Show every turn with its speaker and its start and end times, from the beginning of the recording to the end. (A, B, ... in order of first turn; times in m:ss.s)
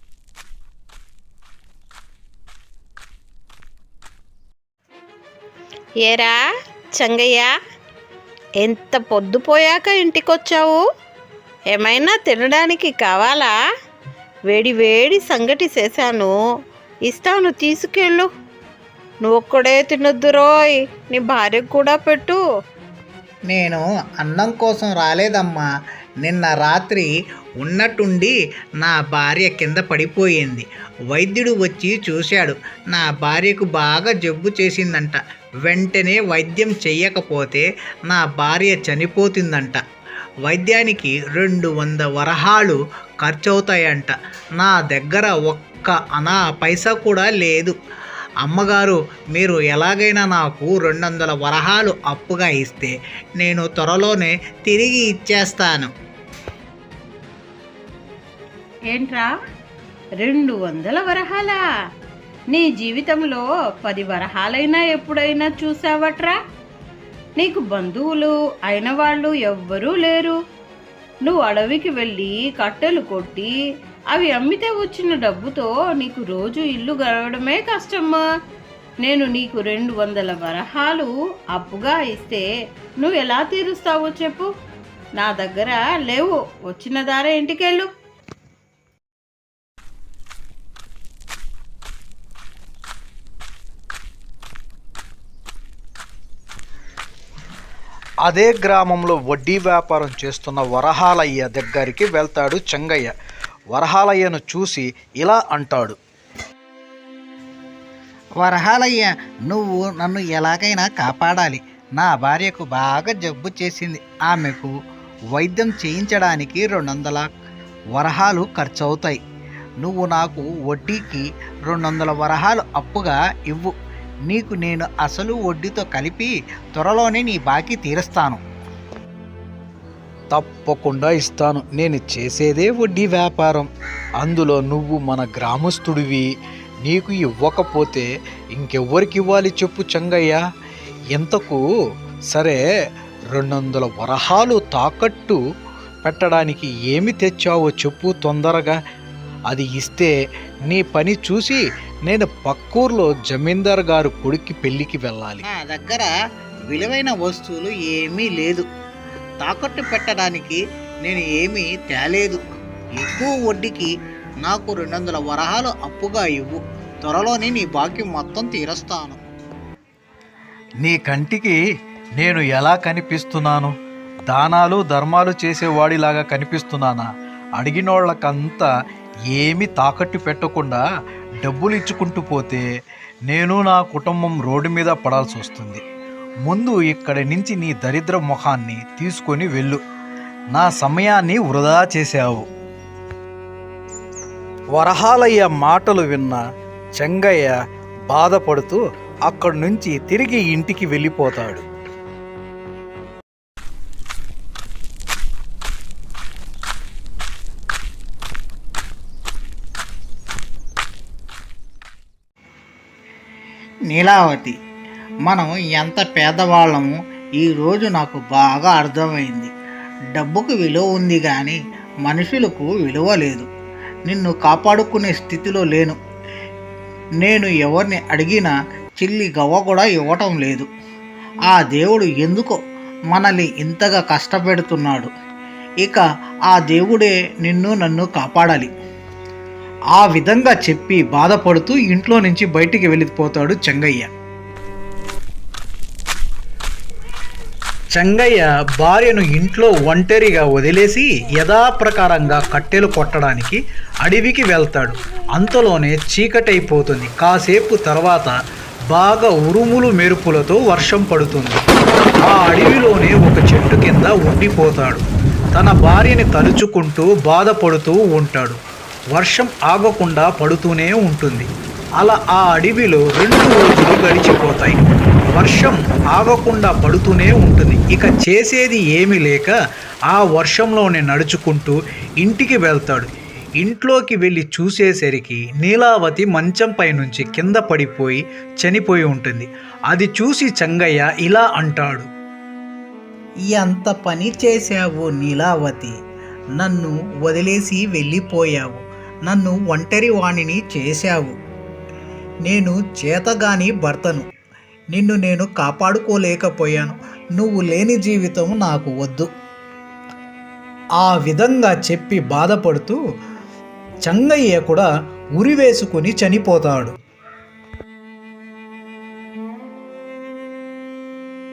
0:06.0-0:06.4 A
0:07.0-0:07.6 A
0:08.6-0:10.8 A
0:11.7-0:13.6 A
0:14.5-0:16.4 A
0:17.1-0:18.3 A
0:19.2-0:22.4 A
0:23.5-0:25.7 B
0:26.2-0:27.1 B
0:27.6-0:39.8 B
0:40.5-0:47.8 B
0:48.4-0:55.9 B
0:58.9-0:59.3 A
1:00.2-1:01.6 A
1:02.5-1:06.4 A
1:07.4-1:10.4 A
1:11.3-1:13.5 A
1:14.1-1:18.2 A
1:19.0-1:22.5 A
1:23.0-1:24.5 A
1:25.2-1:27.9 A
1:38.2-1:43.1 C
1:43.7-1:46.0 C
1:48.4-1:54.7 B
1:55.3-1:57.3 B
1:58.0-1:59.2 B
1:59.8-2:03.7 B
2:04.3-2:08.4 B
2:10.3-2:13.7 C
2:14.2-2:16.3 C
2:16.8-2:20.4 C
2:21.1-2:21.6 C
2:22.3-2:22.6 C
2:23.3-2:25.4 C
2:26.0-2:28.8 C
2:29.5-2:30.1 C
2:30.7-2:35.4 C
2:35.5-2:36.1 B
2:36.7-2:38.6 B
2:39.4-2:42.4 B
2:43.0-2:43.9 B
2:44.4-2:49.2 B
2:50.8-2:51.6 C
2:52.2-2:53.8 C
2:54.3-2:58.7 C
2:59.3-3:00.8 C
3:01.4-3:02.6 C
3:03.3-3:05.8 C
3:06.4-3:09.8 C
3:10.5-3:12.5 C
3:14.7-3:16.4 C
3:17.0-3:17.6 C
3:18.1-3:21.6 C
3:33.9-3:34.6 B
3:35.3-3:39.5 B
3:40.2-3:43.5 B
3:44.1-3:46.0 B
3:47.2-3:50.7 B
3:51.5-3:52.6 B
3:53.1-3:55.1 B
3:55.8-3:58.7 B
3:59.9-4:04.1 C
4:07.9-4:18.4 C
4:18.9-4:21.6 C
4:22.2-4:25.0 C
4:25.5-4:28.6 C
4:29.1-4:34.8 C
4:35.3-4:39.6 C
4:40.1-4:43.1 C
4:43.6-4:52.1 C
4:53.5-4:55.9 B
4:56.6-5:01.3 B
4:59.4-4:59.7 C
5:02.5-5:03.9 B
5:03.9-5:04.2 C
5:05.0-5:05.8 C
5:05.8-5:09.3 B
5:11.0-5:13.0 C
5:14.0-5:16.9 C